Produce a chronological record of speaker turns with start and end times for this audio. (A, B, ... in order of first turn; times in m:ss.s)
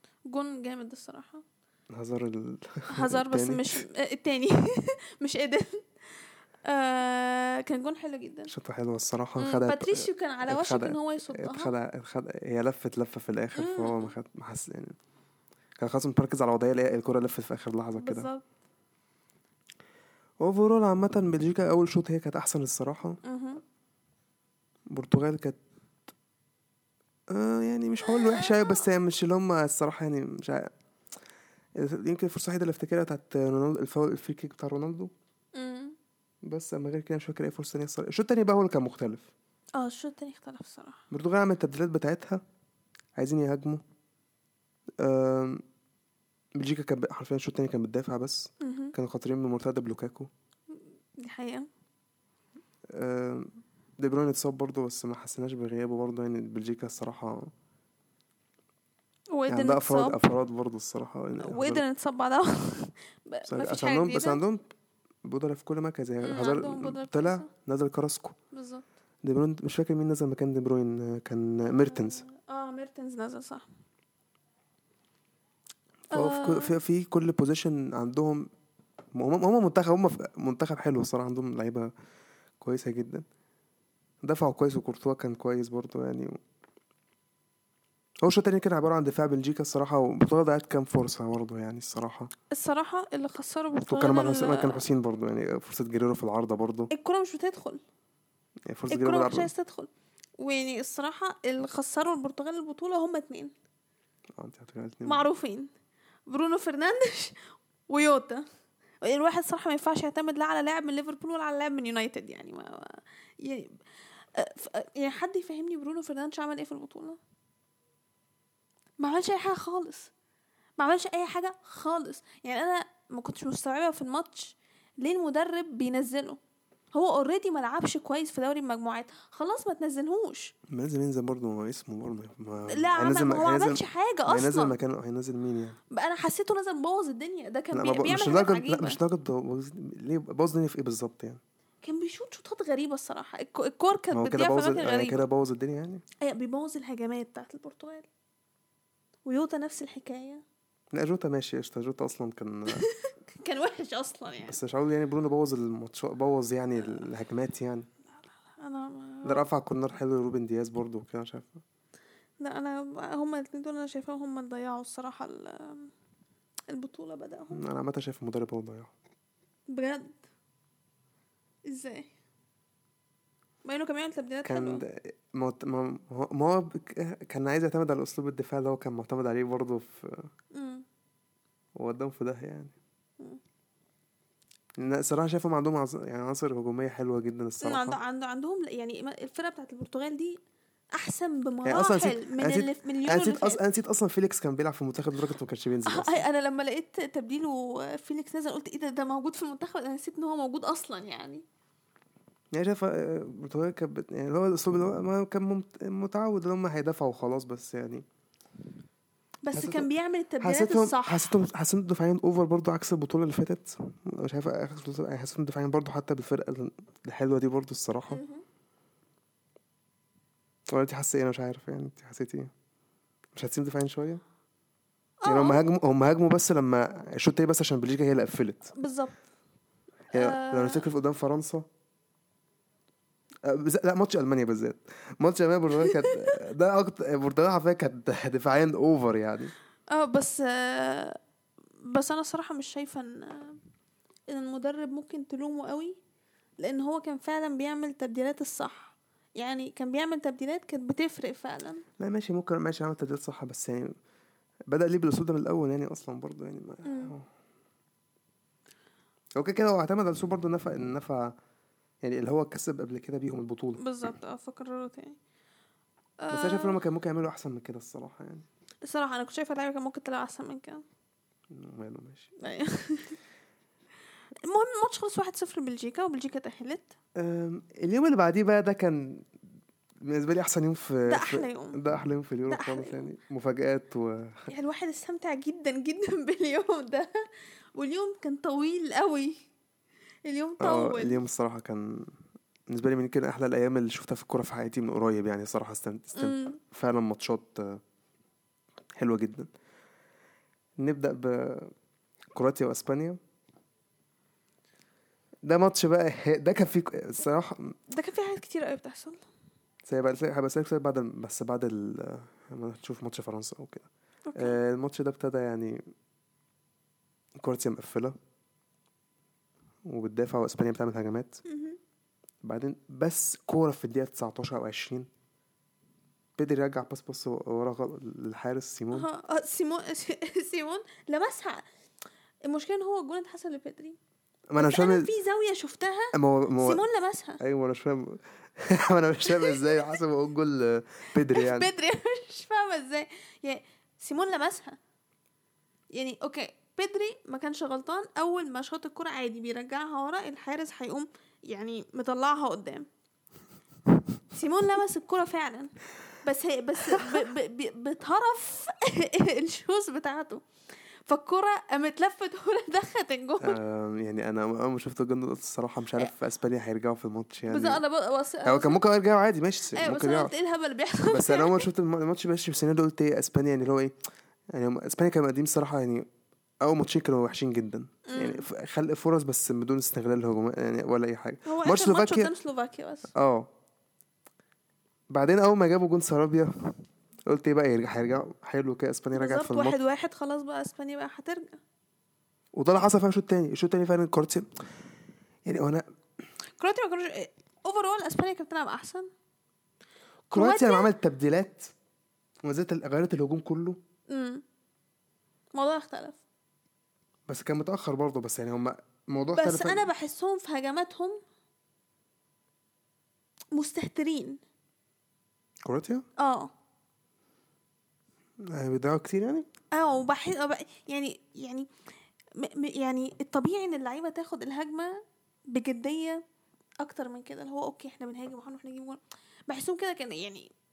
0:00.3-0:01.4 A
0:01.9-0:03.7 B
0:02.9-0:05.9 A
0:06.6-0:08.5 A
0:08.5-0:14.9 B
0:09.4-0:11.7 A
0:13.6-0:14.1 A
0:15.8-0:18.3 B
0:17.9-0:18.4 A
0:20.4-0:23.2 B
0:23.2-0:23.6 A
0:24.9-0:25.6 B
0:27.3-0:30.7 B
0:28.0-0:28.8 A
0:31.8-0:35.1 B
0:35.5-0:36.0 A
0:36.4-0:39.3 B
0:39.8-0:41.0 A
0:41.1-0:42.4 B
0:43.2-0:43.8 B
0:45.0-0:45.6 B
0:46.6-0:50.3 B
0:48.6-0:48.9 A
0:51.2-0:51.7 A
0:52.9-0:57.5 B
0:59.3-1:00.2 A
0:59.5-1:01.8 B
1:01.4-1:04.4 A
1:03.5-1:04.6 B
1:05.2-1:08.4 B
1:06.2-1:07.5 A
1:08.5-1:08.9 A
1:09.2-1:12.2 B
1:11.8-1:13.6 A
1:16.1-1:18.5 B
1:16.1-1:16.8 A
1:19.1-1:21.9 B
1:22.6-1:23.2 B
1:24.2-1:26.4 B
1:28.2-1:32.3 B
1:32.5-1:34.8 A
1:33.9-1:36.9 B
1:36.9-1:37.8 A
1:38.7-1:39.5 B
1:38.9-1:43.5 A
1:44.4-1:45.2 B
1:45.0-1:45.7 A
1:46.3-1:48.4 A
1:49.0-1:53.8 A
1:54.3-1:57.2 A
1:59.0-2:00.1 A
2:00.8-2:06.4 A
2:06.9-2:10.5 A
2:10.7-2:15.8 B
2:12.7-2:14.7 A
2:15.9-2:19.0 A
2:17.7-2:21.4 B
2:21.8-2:25.2 A
2:24.1-2:26.0 B
2:26.2-2:28.1 A
2:29.2-2:30.4 A
2:30.9-2:32.8 B
2:32.7-2:34.6 A
2:34.5-2:37.9 B
2:38.5-2:39.4 A
2:39.2-2:41.6 B
2:42.4-2:45.9 A
2:46.7-2:47.6 A
2:47.5-2:48.9 B
2:49.7-2:50.2 A
2:51.6-2:52.1 A
2:53.6-2:54.8 A
2:54.4-3:00.3 B
3:00.5-3:00.8 A
3:01.8-3:02.7 B
3:04.8-3:08.0 B
3:07.6-3:10.4 A
3:10.9-3:13.6 A
3:11.6-3:16.2 B
3:15.8-3:21.4 A
3:22.5-3:28.0 B
3:29.4-3:31.3 A
3:29.5-3:29.9 B
3:30.4-3:38.2 B
3:38.1-3:38.4 A
3:40.7-3:42.5 B
3:43.3-3:44.2 B
3:45.2-3:45.6 A
3:45.2-3:48.7 B
3:48.7-3:49.2 A
3:50.1-3:51.6 B
3:50.1-3:50.8 A
3:53.4-3:59.5 B
3:55.8-3:56.2 A
3:59.9-4:01.2 A
4:01.8-4:03.6 A
4:04.3-4:06.0 A
4:06.6-4:11.8 A
4:12.0-4:13.9 B
4:14.7-4:17.3 B
4:16.8-4:17.1 A
4:19.4-4:21.3 B
4:22.0-4:23.8 B
4:23.8-4:25.2 A
4:26.2-4:26.8 A
4:26.3-4:28.4 B
4:28.8-4:30.8 A
4:31.5-4:32.3 B
4:32.4-4:33.2 A
4:34.4-4:36.9 A
4:37.2-4:39.3 B
4:40.0-4:44.5 B
4:41.0-4:41.8 A
4:42.5-4:43.0 A
4:44.5-4:47.1 A
4:47.8-4:49.4 A
4:50.2-4:51.2 A
4:50.6-4:52.1 B
4:52.7-4:57.8 B
4:56.2-4:56.6 A
4:59.0-4:59.5 B
5:00.8-5:01.7 B
5:02.3-5:03.2 B
5:05.4-5:07.7 B
5:07.9-5:09.2 A
5:09.8-5:15.8 B
5:14.3-5:14.6 A
5:17.4-5:18.1 B
5:19.8-5:21.4 B
5:21.4-5:21.8 A
5:22.4-5:25.1 B
5:26.4-5:29.1 B
5:28.9-5:31.6 A
5:32.4-5:34.0 A
5:34.5-5:35.1 B
5:34.6-5:37.4 A
5:36.1-5:36.8 B
5:37.4-5:41.7 B
5:39.3-5:39.6 A
5:41.3-5:44.8 A
5:45.9-5:52.9 A
5:54.3-6:00.4 A
6:01.0-6:03.6 A
6:03.4-6:07.8 B
6:07.5-6:08.8 A
6:08.4-6:10.3 B
6:09.7-6:11.6 A
6:11.1-6:13.9 B
6:14.5-6:16.0 B
6:16.6-6:22.3 B
6:18.0-6:18.5 A
6:21.4-6:23.1 A
6:23.1-6:23.5 B
6:25.1-6:26.5 B
6:27.3-6:29.8 B
6:29.1-6:31.6 A
6:32.5-6:34.5 B
6:35.4-6:35.8 B
6:36.6-6:39.1 A
6:40.3-6:40.9 A
6:40.3-6:41.7 B
6:42.4-6:43.8 B
6:44.1-6:44.4 A
6:45.5-6:46.2 A
6:47.3-6:49.9 B
6:49.3-6:51.2 A
6:53.5-6:54.4 A
6:55.6-6:56.0 B
6:56.2-6:56.5 A
6:58.4-6:59.4 B
6:59.7-7:01.7 A
7:02.4-7:06.2 A
7:06.8-7:10.5 A